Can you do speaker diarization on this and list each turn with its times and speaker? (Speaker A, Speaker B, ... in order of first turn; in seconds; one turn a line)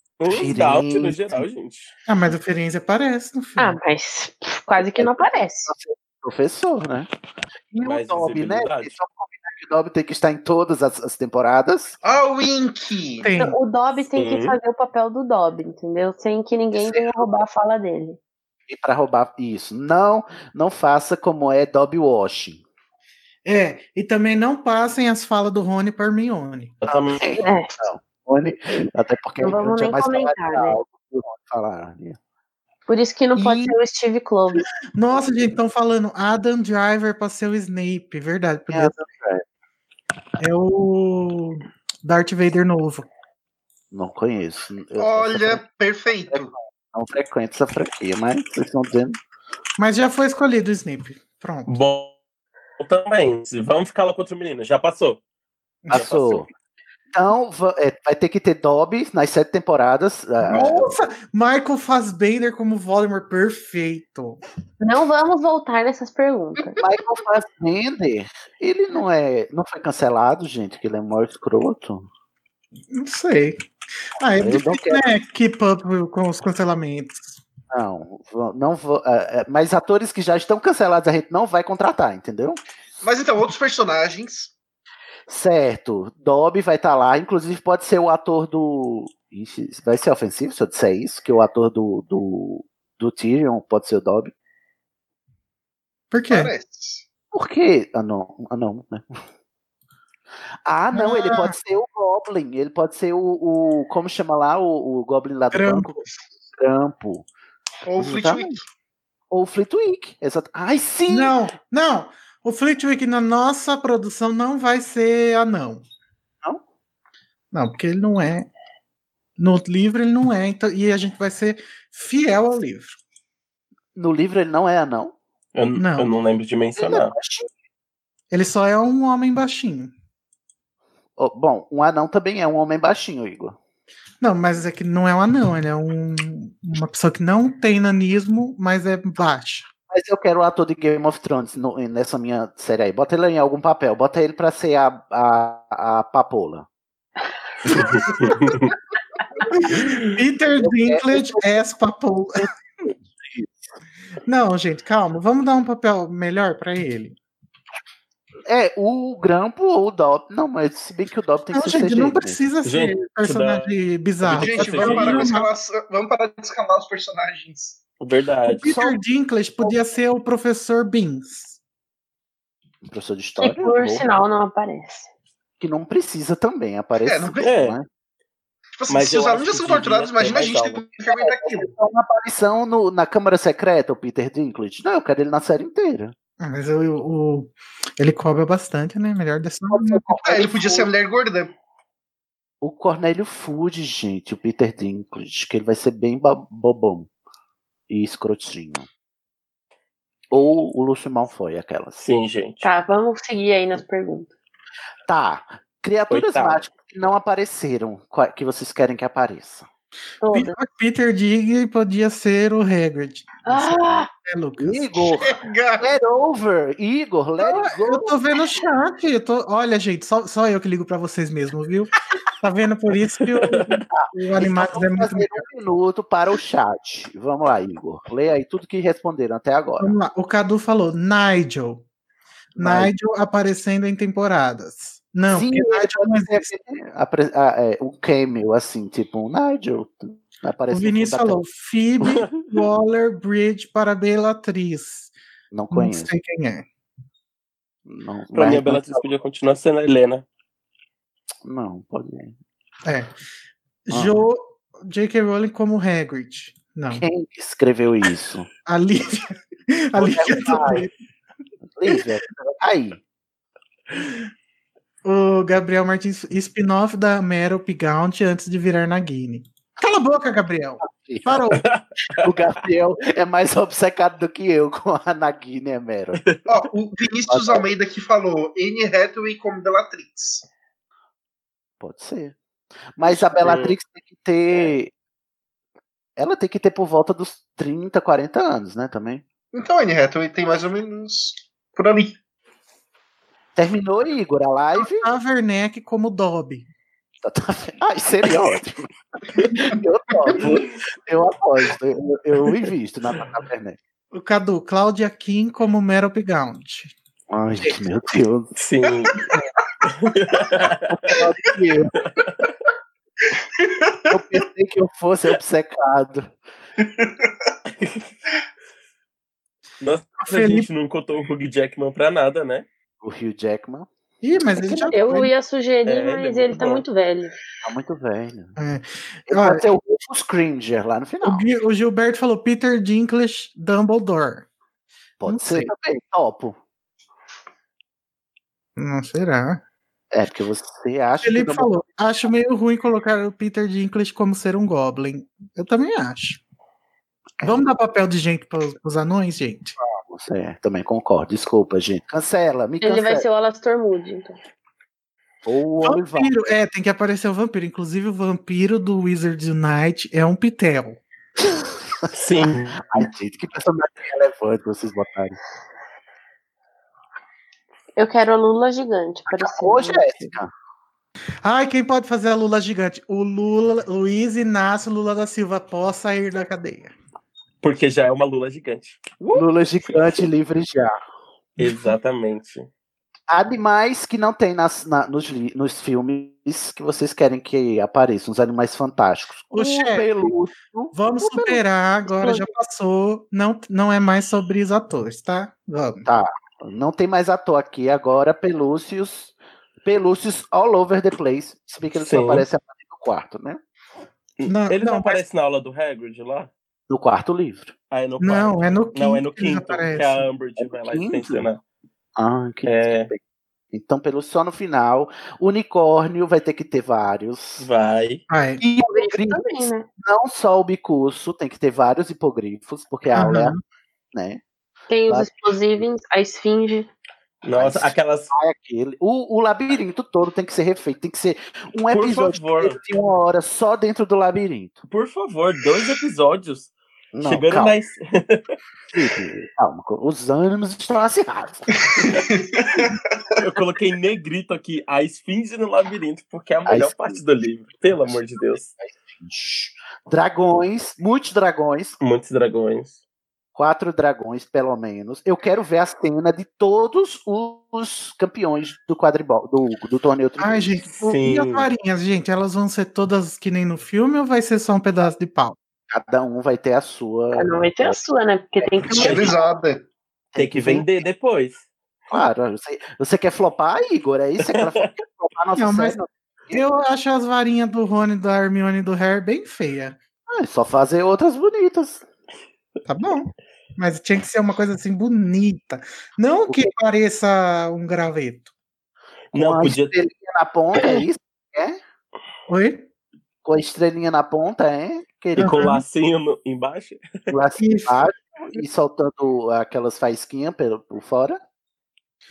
Speaker A: 0.2-1.9
Speaker B: 0.3-1.4
Speaker C: 2.1-3.8
Speaker D: 3.6-5.7
Speaker B: 4.8-7.1
Speaker B: 7.7-12.0
Speaker A: 7.8-8.9
Speaker E: 12.0-13.3
Speaker C: 13.2-13.6
Speaker D: 13.3-18.2
Speaker A: 14.2-14.6
Speaker B: 16.8-17.1
Speaker B: 18.7-22.6
Speaker C: 23.5-26.8
Speaker A: 26.8-27.2
Speaker B: 26.9-32.2
Speaker D: 27.4-27.8
Speaker D: 29.4-30.8
Speaker D: 32.9-34.7
Speaker B: 33.4-33.8
Speaker C: 34.9-39.0
Speaker B: 38.7-39.4
Speaker C: 40.4-43.1
Speaker B: 43.9-45.6
Speaker E: 45.0-46.5
Speaker B: 46.2-49.2
Speaker C: 49.8-51.8
Speaker A: 51.7-52.1
Speaker A: 52.8-55.2
Speaker B: 55.9-56.5
Speaker A: 55.9-56.5
Speaker B: 57.1-61.0
Speaker C: 60.5-64.4
Speaker D: 64.8-66.8
Speaker B: 66.8-72.1
Speaker C: 72.9-73.6
Speaker C: 74.2-77.3
Speaker B: 74.4-75.1
Speaker B: 77.7-82.6
Speaker E: 83.0-84.5
Speaker B: 85.3-94.3
Speaker C: 96.1-96.5
Speaker E: 96.3-97.0
Speaker B: 97.3-99.2
Speaker B: 100.7-105.9
Speaker C: 100.9-101.5
Speaker C: 105.5-106.1
Speaker B: 106.6-107.3
Speaker E: 107.9-108.6
Speaker B: 108.0-108.5
Speaker B: 109.3-111.3
Speaker C: 111.1-115.8
Speaker C: 117.5-118.5
Speaker C: 119.4-123.0
Speaker B: 124.0-125.2
Speaker A: 125.5-127.1
Speaker C: 125.8-126.1
Speaker B: 126.8-127.5
Speaker C: 128.3-129.9
Speaker B: 131.2-133.6
Speaker C: 134.2-139.7
Speaker B: 139.9-146.7
Speaker B: 147.7-148.6
Speaker A: 148.2-148.7
Speaker C: 149.5-152.5
Speaker B: 150.5-151.6
Speaker B: 152.4-153.7
Speaker C: 154.3-157.2
Speaker B: 158.5-162.4
Speaker C: 161.5-165.5
Speaker A: 162.7-163.7
Speaker E: 164.2-167.8
Speaker A: 164.3-165.3
Speaker A: 168.0-169.0
Speaker C: 168.5-171.6
Speaker B: 172.8-174.1
Speaker D: 173.4-175.1
Speaker B: 175.6-177.9
Speaker E: 177.0-177.5
Speaker A: 177.4-177.8
Speaker E: 178.8-181.7
Speaker A: 178.9-180.8
Speaker B: 181.1-186.1
Speaker C: 186.4-190.2
Speaker B: 189.7-190.9
Speaker E: 190.2-191.5
Speaker B: 192.6-197.1
Speaker B: 197.9-198.9
Speaker B: 200.3-202.0
Speaker A: 202.0-202.7
Speaker D: 202.6-204.3
Speaker B: 205.1-209.7
Speaker A: 206.1-206.6
Speaker D: 210.2-210.6
Speaker C: 210.3-215.1
Speaker D: 213.5-214.1
Speaker B: 214.6-218.2
Speaker E: 215.1-215.8
Speaker C: 217.4-225.4
Speaker B: 223.9-229.9
Speaker C: 229.8-231.8
Speaker B: 232.6-232.9
Speaker C: 232.6-236.5
Speaker B: 235.3-241.4
Speaker C: 240.7-245.1
Speaker B: 245.5-246.2
Speaker C: 245.7-246.7
Speaker B: 247.9-249.1
Speaker A: 248.3-250.2
Speaker B: 251.4-252.3
Speaker C: 252.9-253.1
Speaker C: 253.9-257.0
Speaker B: 253.9-254.2
Speaker B: 256.9-258.5
Speaker C: 258.7-260.9
Speaker B: 260.0-260.9
Speaker B: 261.7-263.0
Speaker C: 263.9-264.2
Speaker C: 265.1-271.6
Speaker B: 270.8-271.6
Speaker A: 271.6-272.2
Speaker B: 272.2-276.2
Speaker A: 276.1-276.4
Speaker E: 276.5-280.5
Speaker B: 277.3-277.7
Speaker B: 281.8-282.4
Speaker B: 283.0-284.9
Speaker A: 283.4-283.8
Speaker B: 286.2-289.2
Speaker E: 289.5-292.1
Speaker B: 293.6-295.1
Speaker C: 294.8-296.7
Speaker B: 297.2-303.8
Speaker C: 304.1-306.9
Speaker B: 307.3-308.5
Speaker A: 308.6-309.3
Speaker A: 309.8-311.2
Speaker B: 310.9-311.9
Speaker E: 313.4-314.0
Speaker B: 314.1-316.3
Speaker E: 316.8-317.5
Speaker A: 317.8-318.1
Speaker A: 319.8-322.7
Speaker C: 320.2-320.7
Speaker B: 323.0-325.2
Speaker C: 324.2-325.3
Speaker D: 324.9-327.4
Speaker A: 325.9-326.8
Speaker B: 327.6-328.6
Speaker C: 328.6-329.6
Speaker B: 329.3-331.4
Speaker C: 331.2-334.5
Speaker B: 335.2-336.6
Speaker C: 335.3-335.7
Speaker C: 338.8-339.6
Speaker B: 340.1-341.7
Speaker C: 341.2-346.4
Speaker B: 347.4-347.7
Speaker C: 347.4-349.8
Speaker B: 349.8-353.2
Speaker D: 352.8-354.4
Speaker B: 355.4-356.3
Speaker C: 355.8-361.0
Speaker B: 361.4-362.1
Speaker A: 362.1-363.0
Speaker B: 362.8-365.4
Speaker D: 368.0-370.3
Speaker B: 369.3-370.5
Speaker C: 371.4-376.9
Speaker A: 377.6-380.2
Speaker B: 379.3-380.9
Speaker C: 381.6-381.9
Speaker A: 381.6-382.7
Speaker B: 383.3-392.5
Speaker C: 389.5-390.3
Speaker C: 390.9-396.1
Speaker B: 396.1-403.6
Speaker A: 401.9-402.5
Speaker A: 404.4-406.5
Speaker C: 404.5-405.2
Speaker B: 406.9-407.7
Speaker A: 407.9-411.6
Speaker C: 408.2-410.3
Speaker B: 410.6-411.5
Speaker B: 412.2-413.2
Speaker A: 412.7-413.1
Speaker B: 413.7-417.7
Speaker A: 417.6-418.2
Speaker C: 418.3-418.6
Speaker B: 418.6-423.5
Speaker D: 418.9-419.9
Speaker C: 423.1-423.6
Speaker B: 424.1-424.4
Speaker D: 424.9-426.9
Speaker A: 427.4-428.3
Speaker B: 427.5-434.8
Speaker A: 431.9-432.8
Speaker A: 434.9-436.7
Speaker B: 437.1-437.8
Speaker A: 437.2-438.4
Speaker B: 438.9-442.1
Speaker E: 441.9-443.1
Speaker A: 443.4-448.7
Speaker B: 446.7-447.2
Speaker B: 448.0-452.0
Speaker A: 452.0-453.0
Speaker B: 453.6-460.8
Speaker C: 460.4-465.6
Speaker A: 461.0-461.7
Speaker B: 465.9-469.1
Speaker D: 467.4-469.4
Speaker E: 469.0-469.8
Speaker A: 469.0-469.3
Speaker B: 470.3-471.0
Speaker A: 470.4-471.6
Speaker B: 472.1-476.6
Speaker A: 474.5-474.8
Speaker C: 475.6-476.0
Speaker C: 476.5-480.0
Speaker B: 480.3-482.0
Speaker C: 482.9-488.5
Speaker A: 489.3-489.9
Speaker B: 489.3-491.8
Speaker C: 492.5-492.9
Speaker B: 493.4-495.7
Speaker C: 495.4-495.8
Speaker A: 495.4-497.1
Speaker B: 497.3-501.4
Speaker C: 497.6-498.0